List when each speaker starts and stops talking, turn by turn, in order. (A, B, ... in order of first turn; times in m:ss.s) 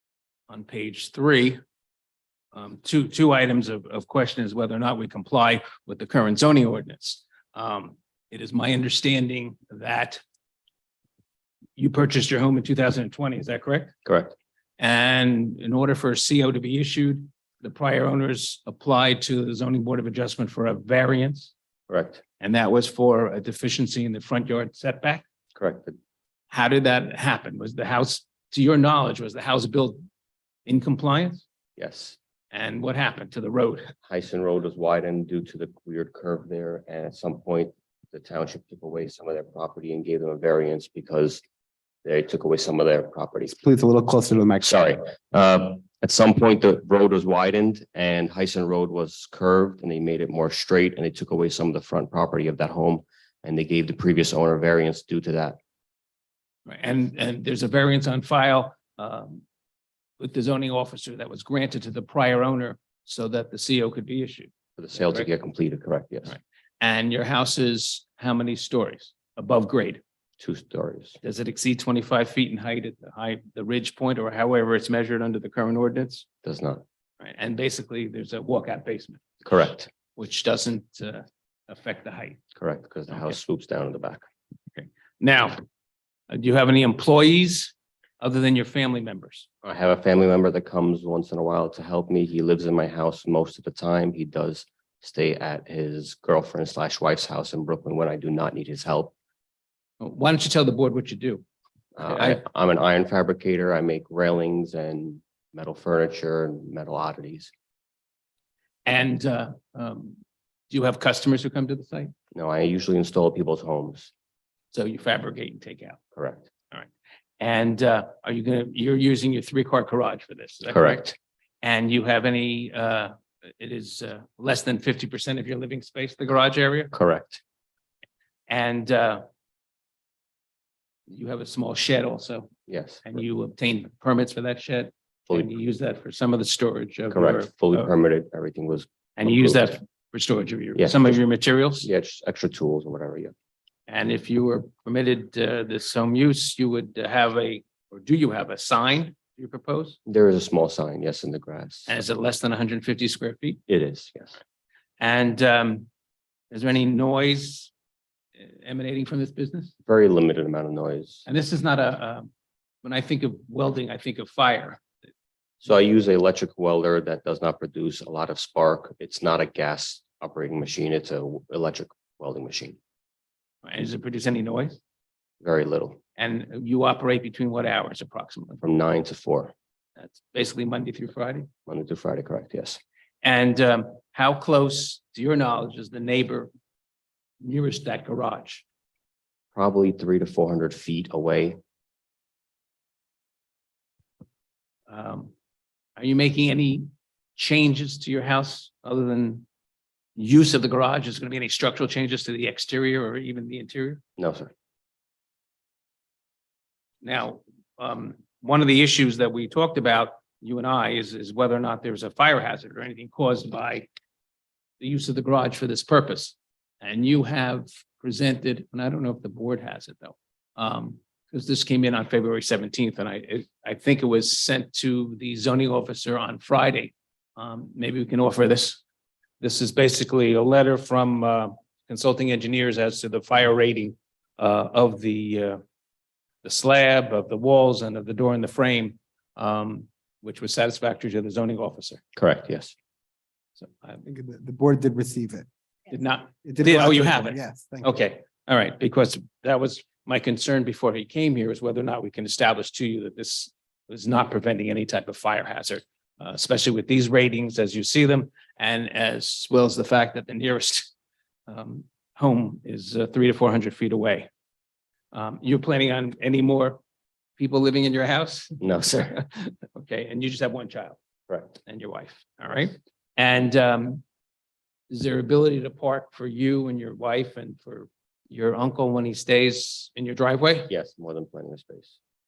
0:00.5-0:01.6 A
0:02.5-0:10.2 A
0:11.8-0:13.9 A
0:14.0-0:14.4 B
0:14.8-0:21.5 A
0:21.9-0:22.2 B
0:22.4-0:25.2 A
0:25.6-0:26.0 B
0:26.5-0:30.0 A
0:30.7-0:31.4 A
0:31.8-0:32.2 B
0:32.5-0:33.9 A
0:34.1-0:41.4 B
0:42.0-0:43.6 B
0:43.5-0:44.8 C
0:44.6-0:55.6 B
0:56.7-0:59.4 A
1:00.2-1:05.2 A
1:04.8-1:06.4 B
1:06.3-1:10.0 A
1:10.4-1:11.2 B
1:11.2-1:16.3 A
1:16.4-1:16.8 B
1:17.2-1:19.2 A
1:19.4-1:19.9 B
1:20.2-1:22.4 A
1:22.6-1:24.2 B
1:24.8-1:25.6 A
1:26.3-1:29.5 A
1:29.6-1:39.1 B
1:40.0-1:41.4 A
1:42.0-1:47.5 B
1:42.0-1:42.4 A
1:48.9-1:50.2 A
1:50.7-1:52.1 A
1:52.3-1:54.1 B
1:54.7-1:56.0 A
1:56.2-1:56.5 B
1:57.4-2:01.0 A
2:00.7-2:01.2 B
2:01.6-2:06.9 A
2:06.9-2:07.4 B
2:08.5-2:09.2 A
2:11.1-2:12.5 A
2:12.7-2:13.1 B
2:13.0-2:17.9 A
2:17.1-2:19.8 B
2:19.2-2:21.9 A
2:20.8-2:21.2 B
2:21.8-2:23.3 B
2:23.9-2:30.0 A
2:30.1-2:32.0 B
2:31.9-2:33.6 A
2:33.7-2:34.4 B
2:35.0-2:35.9 A
2:36.5-2:37.7 A
2:38.4-2:39.7 A
2:39.9-2:41.2 B
2:41.3-2:42.3 A
2:42.8-2:44.8 A
2:45.6-2:52.8 B
2:53.6-2:54.8 A
2:55.4-2:56.0 B
2:56.2-2:58.6 A
2:58.6-2:59.5 B
3:00.0-3:01.5 A
3:01.7-3:02.8 B
3:03.2-3:06.5 A
3:07.4-3:08.6 A
3:09.6-3:11.6 B
3:14.9-3:15.3 A
3:16.0-3:19.5 A
3:20.2-3:24.0 A
3:24.2-3:24.5 B
3:27.0-3:33.9 A
3:34.8-3:48.8 A
3:49.4-3:55.6 A
3:56.4-4:02.0 A
4:02.2-4:02.7 B
4:03.6-4:04.0 A
4:04.0-4:05.5 C
4:05.9-4:20.9 A
4:06.4-4:08.0 C
4:21.5-4:24.3 A
4:25.1-4:26.8 A
4:27.4-4:28.6 A
4:28.6-4:29.2 B
4:29.2-4:31.0 A
4:31.6-4:34.0 A
4:34.9-4:40.7 A
4:40.7-4:42.0 B